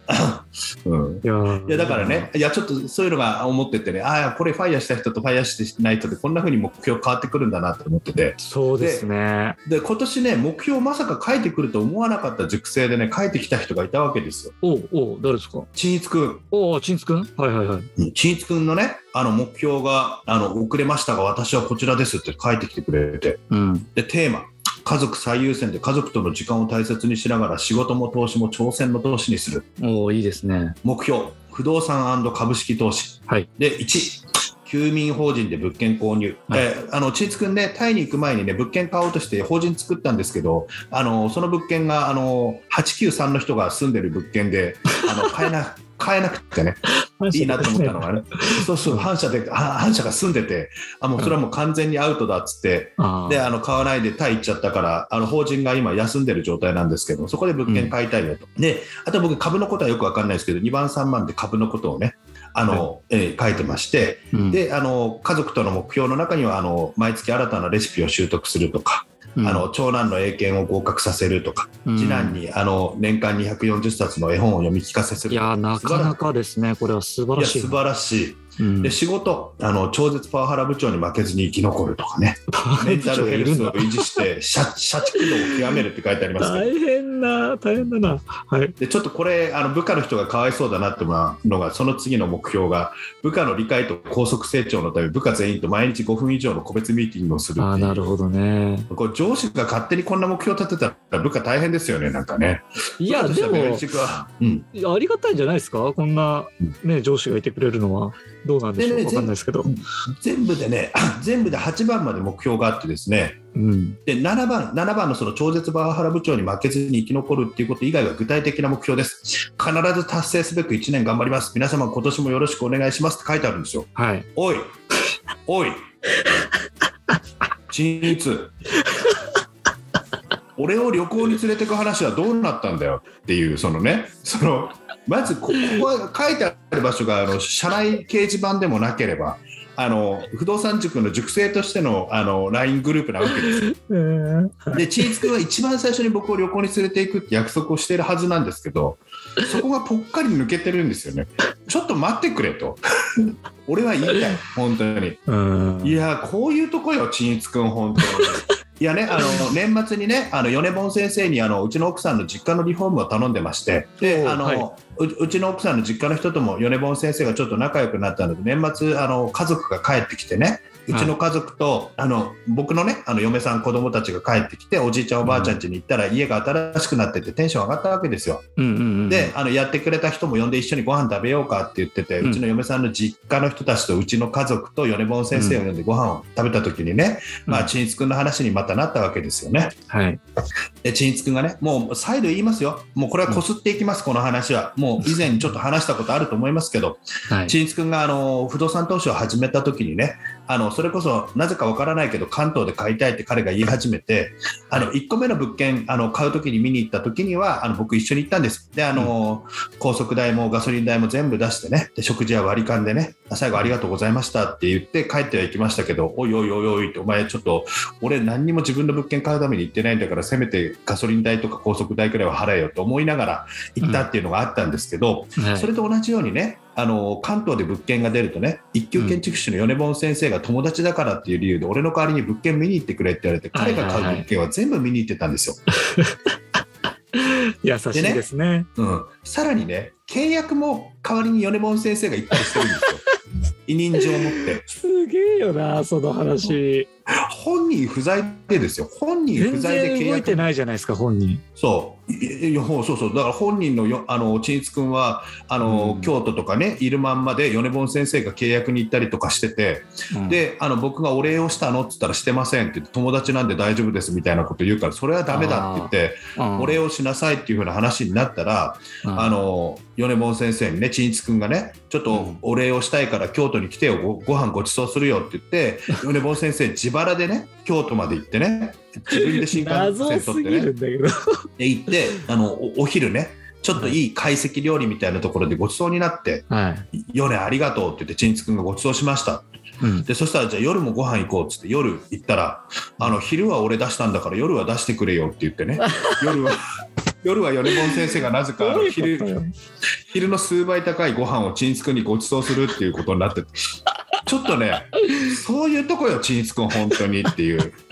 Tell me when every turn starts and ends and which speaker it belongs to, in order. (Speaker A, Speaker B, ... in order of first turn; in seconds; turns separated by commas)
Speaker A: 0.1-9.0, Speaker B: 1.2-2.3, Speaker B: 8.4-9.6, Speaker A: 9.7-14.5, Speaker B: 14.6-15.7, Speaker A: 15.8-16.4, Speaker B: 16.5-17.9, Speaker A: 18.0-23.4, Speaker B: 23.5-23.9, Speaker A: 23.9-29.7, Speaker B: 29.8-30.8, Speaker A: 30.8-46.8, Speaker B: 47.2-49.1, Speaker A: 47.3-76.1, Speaker B: 53.0-53.5, Speaker B: 57.6-57.9, Speaker B: 64.3-64.6, Speaker B: 69.4-69.7, Speaker B: 71.9-72.4, Speaker B: 75.3-77.8, Speaker A: 77.4-86.7, Speaker B: 78.6-79.0, Speaker B: 82.5-84.2, Speaker B: 85.1-85.8, Speaker B: 86.4-88.7, Speaker A: 88.8-98.1, Speaker B: 97.6-98.9, Speaker A: 98.9-104.7, Speaker B: 103.0-103.8, Speaker B: 104.7-109.7, Speaker A: 108.8-113.4, Speaker B: 113.5-114.0, Speaker A: 114.0-124.7, Speaker B: 124.0-124.3, Speaker A: 125.5-125.8, Speaker A: 127.7-128.5, Speaker A: 130.6-143.7, Speaker B: 143.4-145.2, Speaker A: 144.7-155.2, Speaker B: 155.3-156.0, Speaker A: 155.8-178.4, Speaker B: 164.0-164.7, Speaker B: 175.2-175.5, Speaker B: 178.6-179.3, Speaker A: 179.1-189.8, Speaker B: 185.3-185.6, Speaker B: 189.9-190.2, Speaker A: 190.8-235.6, Speaker B: 197.3-197.5, Speaker B: 225.4-225.7, Speaker B: 233.5-234.2, Speaker B: 237.1-238.7, Speaker A: 237.9-238.2, Speaker A: 238.8-243.0, Speaker B: 242.3-242.6, Speaker A: 243.7-244.7, Speaker B: 244.3-246.9, Speaker A: 247.1-250.5, Speaker B: 249.3-251.4, Speaker A: 251.6-280.7, Speaker B: 255.6-256.1, Speaker B: 260.1-260.4, Speaker B: 265.3-266.8, Speaker B: 269.0-269.3, Speaker B: 272.1-272.4, Speaker B: 279.1-281.5, Speaker A: 281.6-289.5, Speaker B: 286.5-286.9, Speaker B: 289.8-290.1, Speaker A: 290.1-296.7, Speaker B: 295.8-296.4, Speaker A: 297.2-299.3, Speaker B: 298.6-299.5, Speaker A: 300.1-303.7, Speaker A: 304.2-307.8